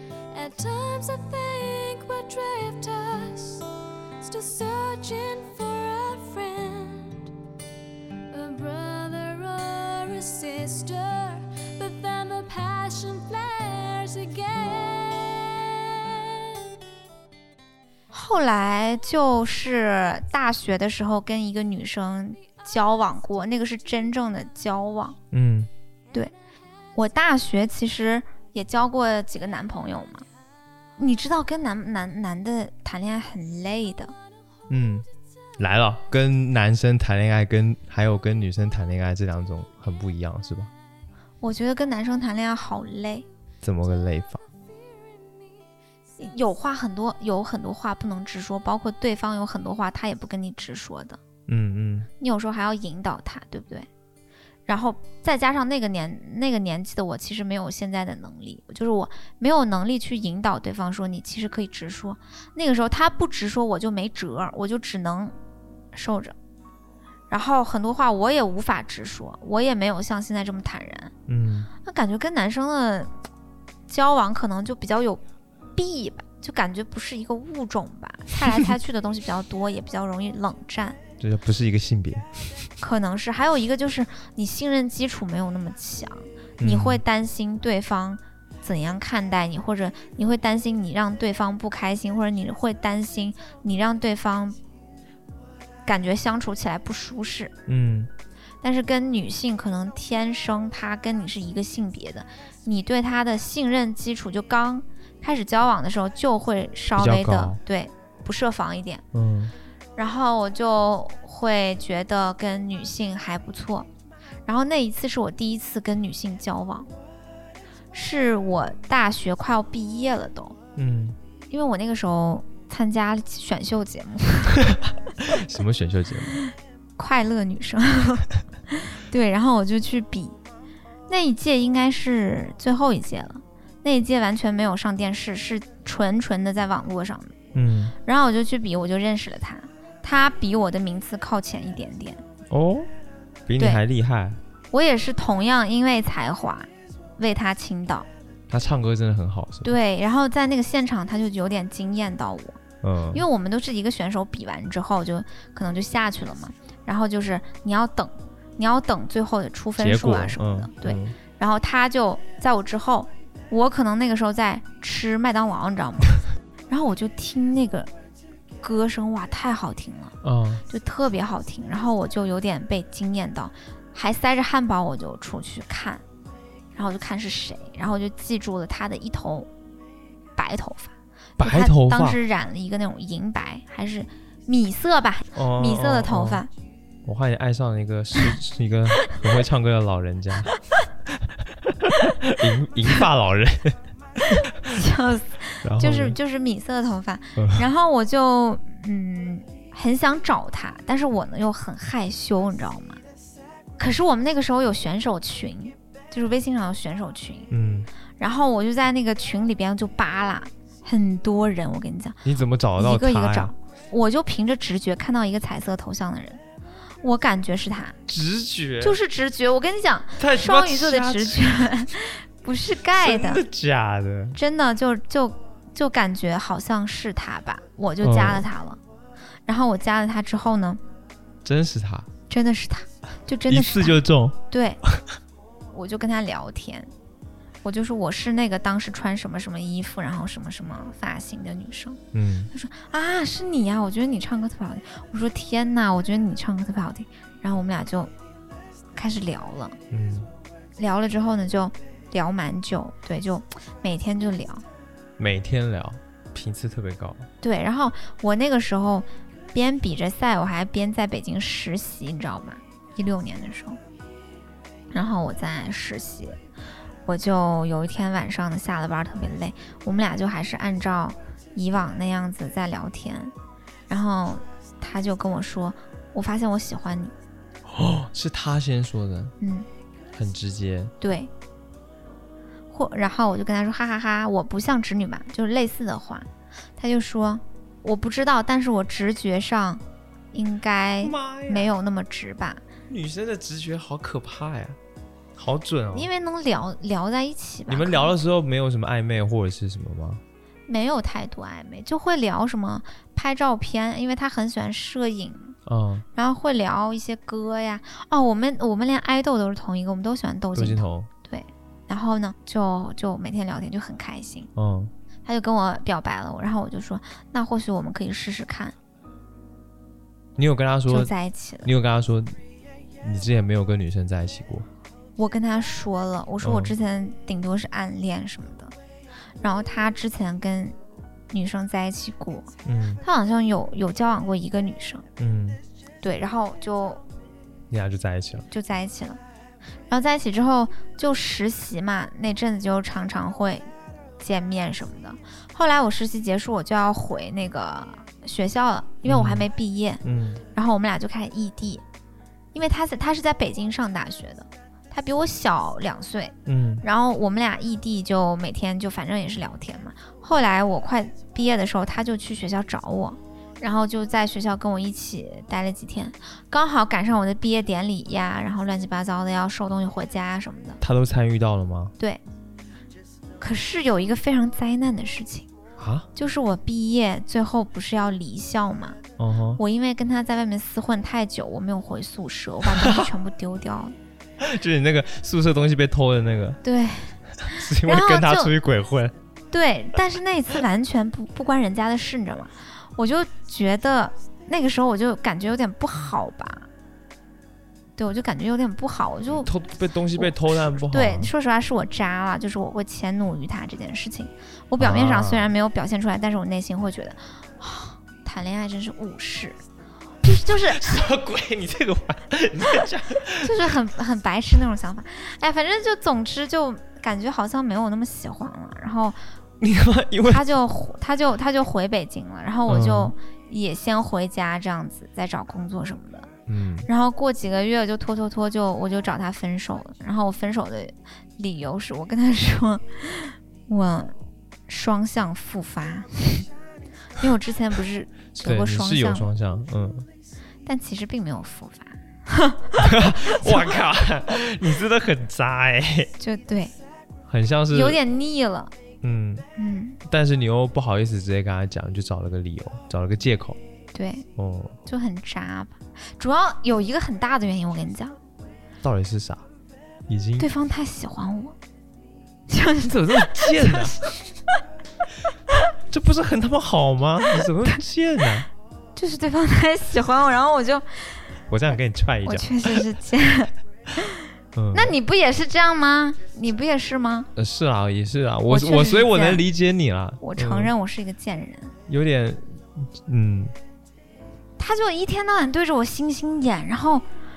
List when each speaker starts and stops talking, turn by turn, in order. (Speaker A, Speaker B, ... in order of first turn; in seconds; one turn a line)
Speaker A: 0.3-7.3
Speaker A: 8.3-16.6
Speaker B: 18.1-25.2
Speaker C: 25.3-25.7
Speaker B: 26.9-30.2
Speaker B: 31.0-34.1
Speaker C: 34.7-35.0
Speaker C: 35.6-40.7
Speaker B: 41.4-43.3
Speaker C: 43.6-44.4
Speaker B: 46.2-51.2
Speaker C: 51.5-52.1
Speaker B: 52.2-53.9
Speaker B: 54.7-65.3
Speaker B: 65.9-66.3
Speaker B: 67.3-71.1
Speaker C: 71.3-71.7
Speaker B: 71.8-73.1
Speaker B: 73.9-75.2
Speaker B: 75.8-81.0
Speaker C: 81.2-82.3
Speaker B: 82.8-94.6
Speaker C: 86.6-87.0
Speaker B: 95.8-97.5
Speaker C: 97.7-98.1
Speaker B: 98.6-109.0
Speaker C: 107.0-107.6
Speaker C: 109.1-109.5
Speaker B: 110.0-113.9
Speaker B: 114.5-116.9
Speaker B: 117.9-120.6
Speaker C: 120.8-121.2
Speaker B: 121.5-124.8
Speaker C: 124.6-126.4
Speaker B: 127.0-130.3
Speaker B: 131.1-137.3
Speaker C: 137.5-137.9
Speaker B: 138.0-142.2
Speaker C: 142.5-142.9
Speaker C: 143.5-144.4
Speaker B: 144.7-148.1
Speaker C: 148.5-149.7
Speaker B: 149.6-152.6
Speaker C: 152.8-153.2
Speaker B: 153.1-167.9
Speaker C: 159.8-161.2
Speaker B: 168.6-176.0
Speaker C: 170.2-170.6
Speaker B: 176.7-179.5
Speaker B: 180.4-186.5
Speaker C: 181.4-182.2
Speaker C: 185.3-186.4
Speaker C: 187.0-190.5
Speaker C: 191.1-194.7
Speaker B: 194.6-203.0
Speaker C: 195.6-196.2
Speaker C: 197.3-197.7
Speaker B: 203.8-207.5
Speaker C: 207.5-207.9
Speaker B: 208.2-212.2
Speaker C: 212.2-213.5
Speaker B: 212.8-216.4
Speaker B: 217.0-218.0
Speaker C: 218.1-219.0
Speaker B: 218.8-223.4
Speaker C: 220.2-221.7
Speaker C: 222.9-224.4
Speaker B: 224.3-228.8
Speaker C: 228.0-228.5
Speaker B: 229.5-230.8
Speaker C: 231.4-232.1
Speaker B: 232.3-234.8
Speaker C: 233.5-234.4
Speaker B: 235.7-236.9
Speaker B: 237.6-248.1
Speaker C: 242.1-242.5
Speaker B: 248.9-249.8
Speaker C: 249.9-250.3
Speaker B: 250.8-254.6
Speaker C: 255.2-257.3
Speaker B: 257.4-263.8
Speaker B: 264.9-266.4
Speaker B: 267.1-273.3
Speaker B: 273.9-277.1
Speaker C: 277.7-279.3
Speaker B: 279.4-279.7
Speaker C: 280.1-280.9
Speaker B: 281.0-281.3
Speaker B: 282.7-289.8
Speaker B: 290.3-292.6
Speaker C: 291.0-291.7
Speaker C: 292.9-294.8
Speaker C: 295.4-296.1
Speaker B: 295.9-298.1
Speaker C: 297.7-300.2
Speaker B: 300.7-305.6
Speaker C: 305.6-306.0
Speaker B: 306.1-314.5
Speaker C: 310.5-311.1
Speaker C: 314.6-314.9
Speaker B: 315.2-318.7
Speaker C: 320.4-321.1
Speaker B: 320.9-321.7
Speaker C: 321.6-322.4
Speaker C: 323.0-324.7
Speaker B: 325.2-328.7
Speaker C: 326.4-326.7
Speaker B: 329.4-330.7
Speaker B: 331.3-335.1
Speaker C: 332.6-333.0
Speaker C: 335.2-335.6
Speaker B: 336.0-337.0
Speaker C: 337.7-338.5
Speaker B: 338.5-339.2
Speaker B: 339.9-343.6
Speaker B: 344.2-350.0
Speaker C: 349.0-349.5
Speaker C: 350.0-350.4
Speaker B: 350.5-351.8
Speaker B: 352.5-370.8
Speaker C: 356.4-356.8
Speaker C: 370.8-371.9
Speaker B: 373.4-375.5
Speaker C: 375.8-376.1
Speaker B: 376.1-379.0
Speaker C: 379.2-379.6
Speaker B: 379.6-383.9
Speaker C: 382.6-383.1
Speaker C: 384.4-386.6
Speaker B: 386.6-388.5
Speaker C: 387.4-389.1
Speaker B: 389.5-396.7
Speaker B: 398.0-399.5
Speaker C: 399.3-401.3
Speaker B: 400.2-409.6
Speaker C: 404.8-405.5
Speaker B: 410.2-411.0
Speaker C: 410.3-413.7
Speaker B: 413.4-419.2
Speaker C: 419.6-420.4
Speaker B: 420.2-426.3
Speaker C: 422.7-423.1
Speaker C: 426.5-426.9
Speaker B: 426.9-434.1
Speaker B: 434.7-436.5
Speaker B: 437.2-439.3
Speaker C: 438.3-440.1
Speaker B: 440.6-443.7
Speaker C: 442.8-446.1
Speaker B: 446.2-446.7
Speaker C: 447.3-448.0
Speaker B: 447.7-448.7
Speaker C: 449.0-449.4
Speaker B: 449.6-450.0
Speaker C: 450.0-453.6
Speaker B: 453.9-454.3
Speaker C: 454.4-454.8
Speaker B: 454.8-458.2
Speaker C: 458.8-459.4
Speaker C: 460.1-460.5
Speaker B: 460.4-461.6
Speaker B: 462.5-464.2
Speaker C: 462.8-464.0
Speaker C: 465.9-468.5
Speaker B: 468.9-471.3
Speaker C: 471.5-472.9
Speaker B: 472.2-477.3
Speaker C: 474.5-474.9
Speaker C: 477.4-480.7
Speaker B: 478.5-479.4
Speaker B: 480.2-481.7
Speaker C: 481.9-483.5
Speaker B: 484.6-487.0